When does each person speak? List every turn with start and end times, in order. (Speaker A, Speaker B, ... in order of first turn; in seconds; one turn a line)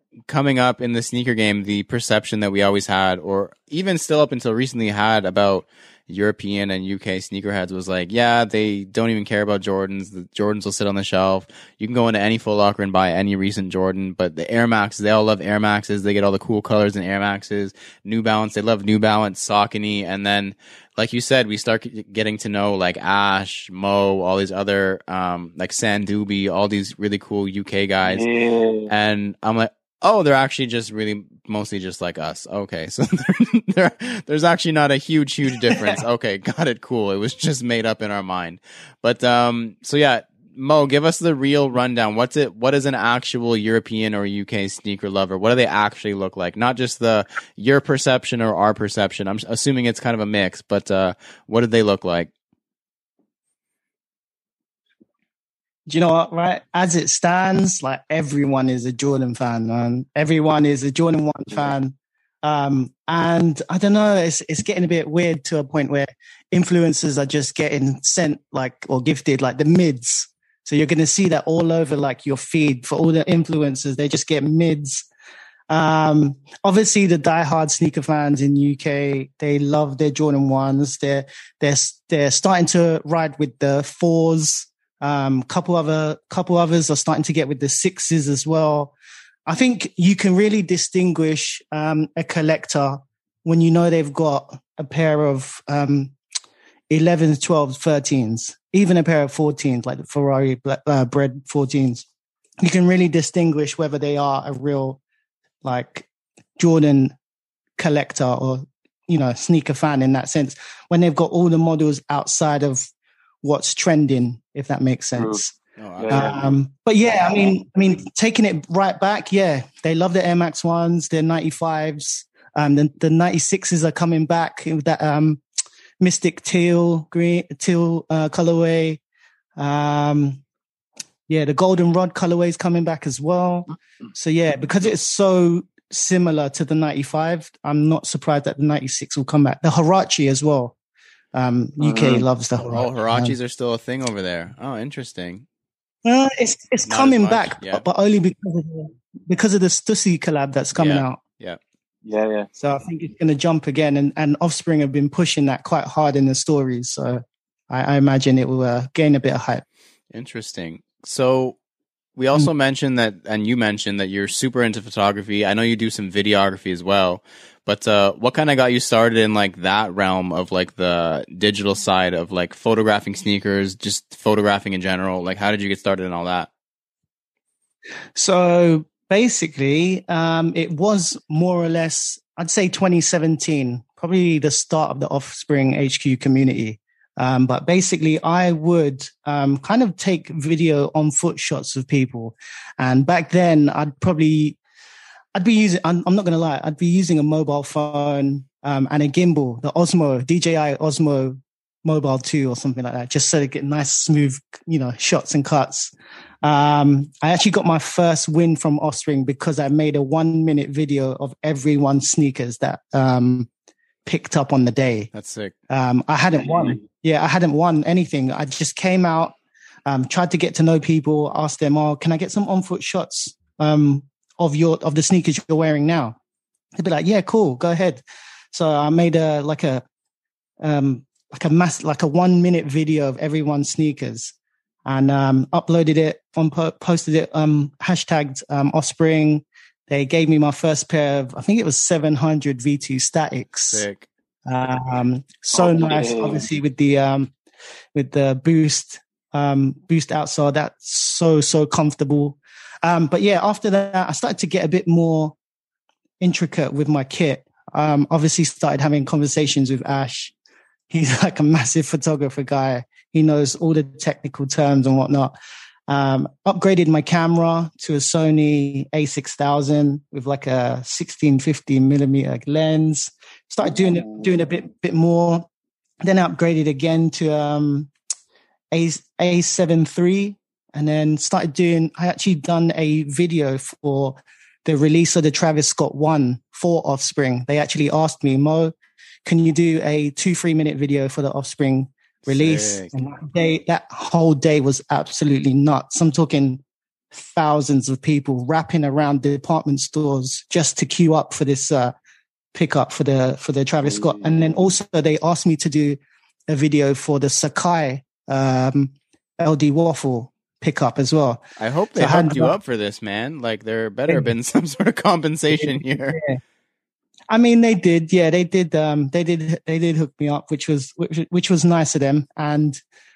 Speaker A: 0.3-28.3
Speaker B: 28.0-28.9
Speaker A: 28.9-52.3
Speaker C: 55.9-75.0
Speaker C: 75.7-88.9
Speaker C: 89.5-96.1
Speaker C: 96.9-102.0
Speaker C: 102.6-105.0
Speaker C: 105.6-106.1
Speaker C: 106.6-107.1
Speaker C: 107.8-112.9
Speaker C: 113.4-115.5
Speaker B: 115.2-115.4
Speaker A: 115.8-116.6
Speaker B: 116.0-116.5
Speaker C: 116.1-125.4
Speaker C: 126.0-129.0
Speaker C: 129.6-130.4
Speaker C: 131.3-140.7
Speaker C: 141.3-143.3
Speaker B: 141.8-142.2
Speaker A: 142.7-145.4
Speaker C: 146.0-151.2
Speaker A: 146.9-147.8
Speaker A: 150.7-151.6
Speaker B: 152.0-152.5
Speaker C: 152.6-159.6
Speaker A: 160.1-161.6
Speaker A: 162.2-176.5
Speaker C: 178.1-194.6
Speaker C: 195.3-213.5
Speaker C: 214.0-215.1
Speaker A: 215.1-215.5
Speaker C: 215.7-226.2
Speaker C: 226.8-229.8
Speaker C: 230.6-234.3
Speaker C: 234.8-243.8
Speaker A: 243.7-244.1
Speaker C: 244.4-247.3
Speaker B: 245.5-246.4
Speaker C: 247.9-255.3
Speaker C: 256.2-260.3
Speaker C: 260.9-265.3
Speaker C: 265.9-275.5
Speaker C: 276.0-277.9
Speaker C: 278.7-288.7
Speaker C: 289.2-296.6
Speaker A: 292.2-292.9
Speaker C: 297.1-301.9
Speaker C: 302.5-312.6
Speaker B: 303.8-304.5
Speaker A: 311.6-316.2
Speaker C: 315.5-316.4
Speaker C: 317.3-322.8